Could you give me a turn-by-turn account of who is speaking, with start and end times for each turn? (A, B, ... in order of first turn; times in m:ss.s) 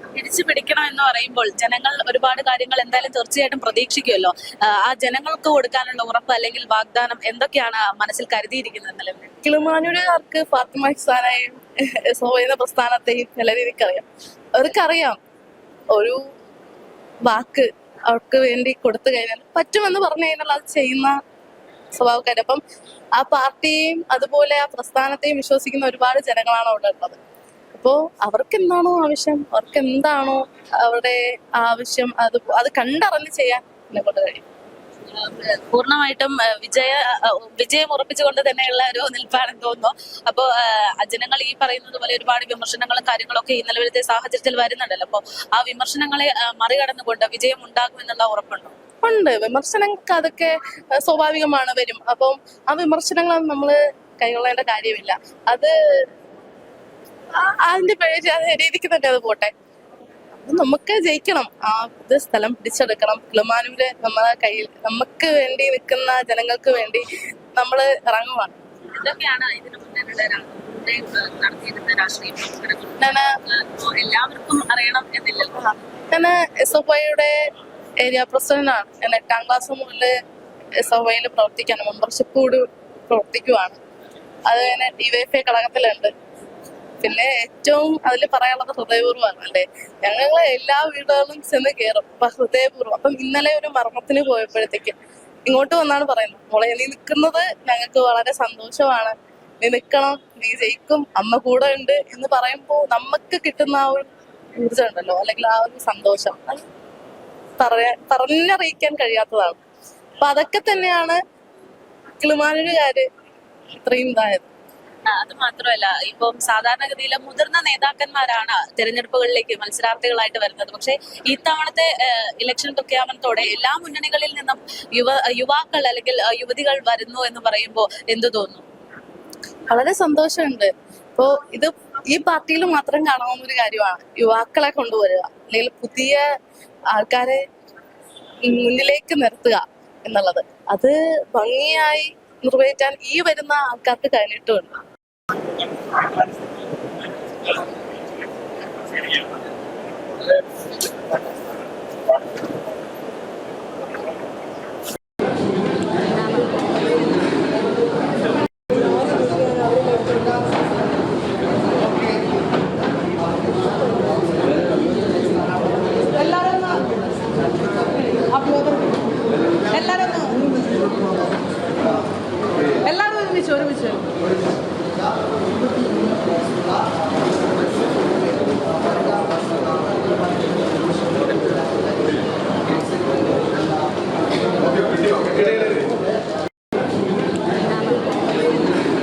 0:00.2-0:09.3 A
0:09.4-0:15.2 B
0:17.3-0:21.2 B
0:21.9-0:22.6 B
0:23.2-0:27.2 B
0:27.7-0:34.4 B
0:35.1-0:48.7 A
0:49.0-0:55.7 B
0:57.4-0:59.5 B
1:00.4-1:07.0 B
1:07.6-1:08.6 B
1:09.0-1:15.6 A
1:13.0-1:13.4 B
1:15.6-1:17.3 B
1:18.0-1:20.1 B
1:20.8-1:23.8 B
1:24.5-1:26.1 B
1:27.0-1:35.0 B
1:35.5-1:44.1 B
1:44.6-1:46.6 B
1:47.6-1:49.6 B
1:50.2-1:51.2 B
1:52.2-1:53.1 B
1:53.8-1:54.5 B
1:55.1-2:08.6 A
2:09.7-2:16.2 B
2:16.9-2:17.4 B
2:18.4-2:24.8 B
2:46.2-2:46.6 A
2:49.7-2:50.4 A
2:52.8-2:53.9 A